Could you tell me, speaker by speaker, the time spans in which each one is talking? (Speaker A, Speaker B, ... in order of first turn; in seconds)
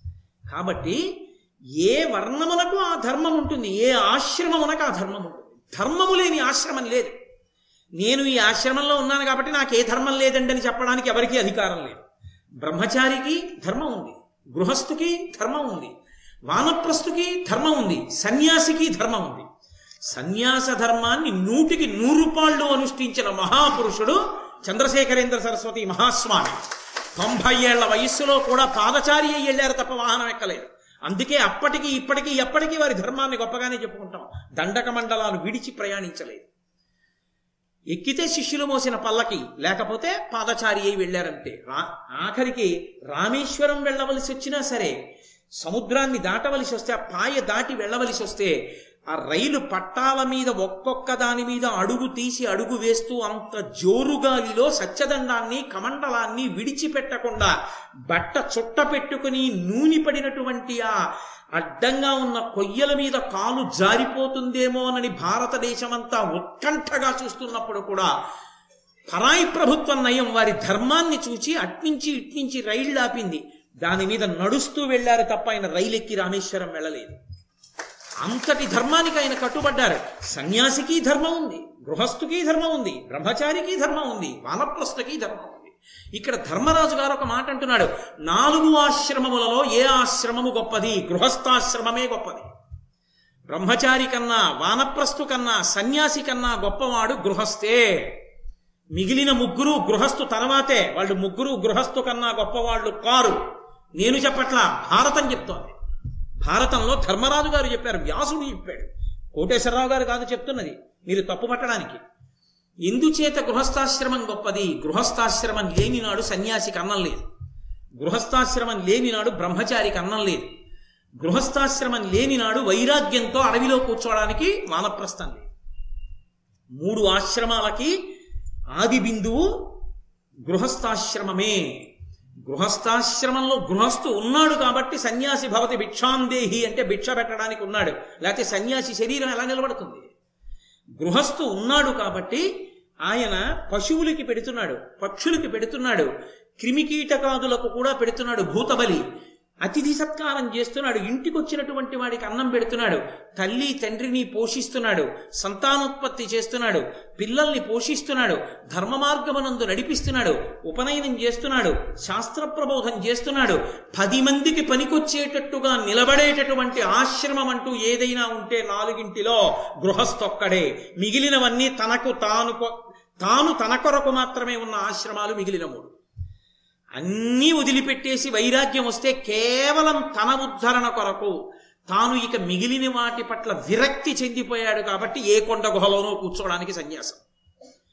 Speaker A: 0.5-1.0, 1.8-7.2, 8.0-12.0, 12.6-15.9, 16.5-19.5, 20.1-26.6, 27.2-36.5, 37.9-45.0, 45.6-48.5, 49.1-57.5, 58.1-61.0, 61.5-68.1, 69.1-77.2, 78.2-92.5, 93.5-98.2, 98.9-103.4, 104.0-105.8, 106.4-112.0, 112.8-117.2, 118.0-120.5, 121.2-125.5, 126.8-128.0, 128.7-129.5, 130.4-131.8, 132.4-140.1, 141.0-142.4, 143.1-149.0, 149.6-175.9, 176.9-181.4, 181.9-187.2